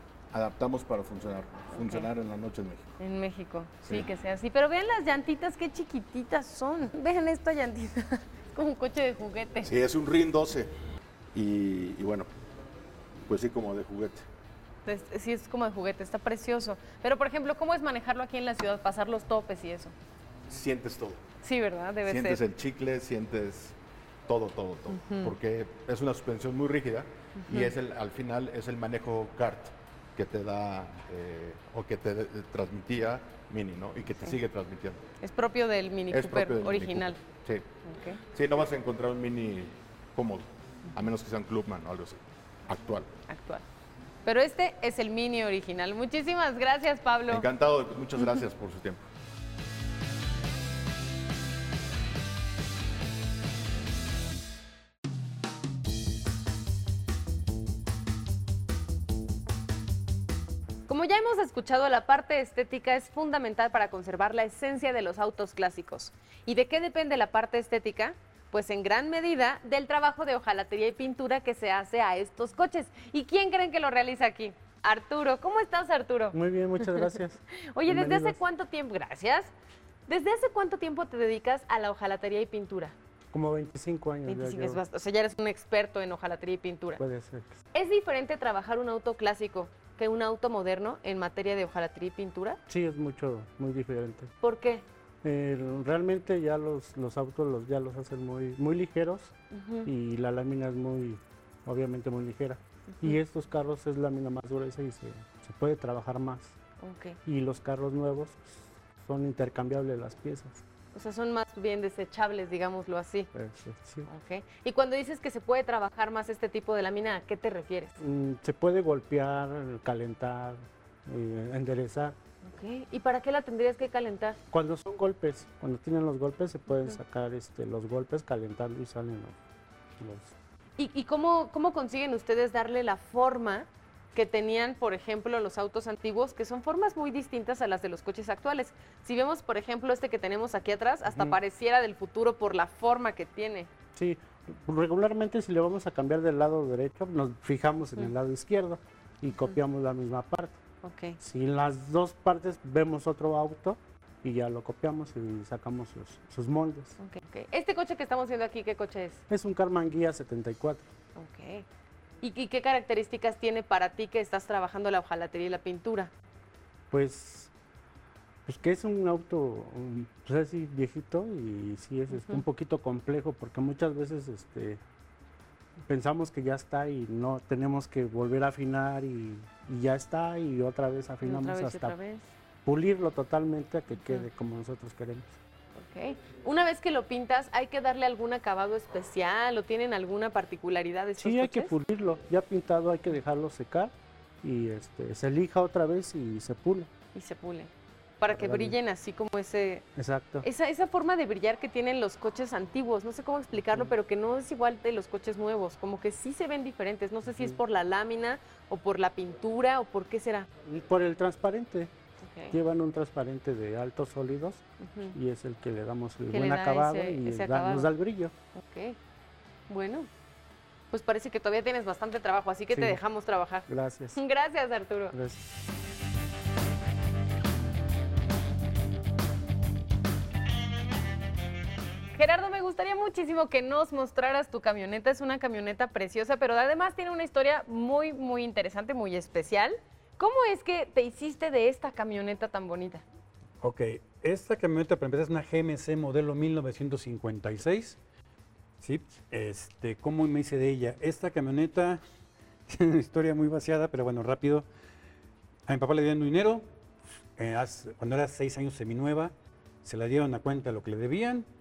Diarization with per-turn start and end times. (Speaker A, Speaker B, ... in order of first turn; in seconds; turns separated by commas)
Speaker A: 0.3-2.9, Speaker B: 1.7-2.0, Speaker B: 3.0-9.7, Speaker A: 9.6-10.7, Speaker A: 11.3-12.3, Speaker A: 13.2-14.3, Speaker B: 14.8-19.9, Speaker A: 20.5-21.2, Speaker B: 21.4-22.4, Speaker A: 22.0-23.8, Speaker A: 24.3-35.0, Speaker B: 24.9-25.3, Speaker B: 27.4-27.7, Speaker B: 35.2-37.2, Speaker A: 36.1-37.7, Speaker B: 37.8-38.2, Speaker A: 38.2-43.1, Speaker B: 43.3-43.6, Speaker B: 44.2-47.5, Speaker A: 47.3-49.0, Speaker B: 60.9-79.5, Speaker C: 76.3-78.4, Speaker B: 80.1-82.9, Speaker C: 83.3-84.8, Speaker B: 84.2-87.0, Speaker C: 87.0-87.6, Speaker B: 87.7-92.6, Speaker C: 92.7-94.3, Speaker B: 94.4-94.8, Speaker C: 95.2-99.3, Speaker B: 99.5-99.9, Speaker C: 99.8-106.5, Speaker B: 106.8-107.2, Speaker C: 107.2-110.6, Speaker B: 110.9-113.3, Speaker C: 113.3-114.1, Speaker B: 114.0-118.0, Speaker C: 118.0-122.2, Speaker B: 122.4-124.4, Speaker C: 124.5-129.4, Speaker C: 130.0-130.3, Speaker B: 130.8-143.7, Speaker C: 141.1-141.4, Speaker C: 143.9-150.6, Speaker B: 150.8-151.2, Speaker C: 151.2-157.0, Speaker B: 157.0-159.2, Speaker C: 159.3-160.8, Speaker B: 161.2-161.6, Speaker B: 162.2-166.1, Speaker C: 166.9-167.5, Speaker C: 168.4-174.8, Speaker B: 172.1-172.4, Speaker C: 175.9-181.9, Speaker B: 181.2-182.2, Speaker C: 182.6-185.4, Speaker B: 184.0-184.3, Speaker B: 185.8-191.7, Speaker C: 191.2-196.9, Speaker B: 197.1-199.8, Speaker C: 198.3-198.8, Speaker C: 199.9-200.4, Speaker B: 200.4-210.5, Speaker C: 207.3-207.6, Speaker C: 210.6-211.9, Speaker B: 212.2-212.6, Speaker C: 212.5-218.3, Speaker B: 214.8-215.2, Speaker B: 216.3-217.9, Speaker B: 218.5-219.0, Speaker B: 219.7-220.1, Speaker B: 220.9-225.2, Speaker C: 222.7-223.0, Speaker C: 223.7-224.2, Speaker C: 225.1-225.4, Speaker B: 232.1-243.0, Speaker D: 243.6-248.0, Speaker D: 248.8-252.0, Speaker D: 252.7-254.7, Speaker D: 255.7-256.6, Speaker D: 257.4-259.3, Speaker D: 259.8-261.4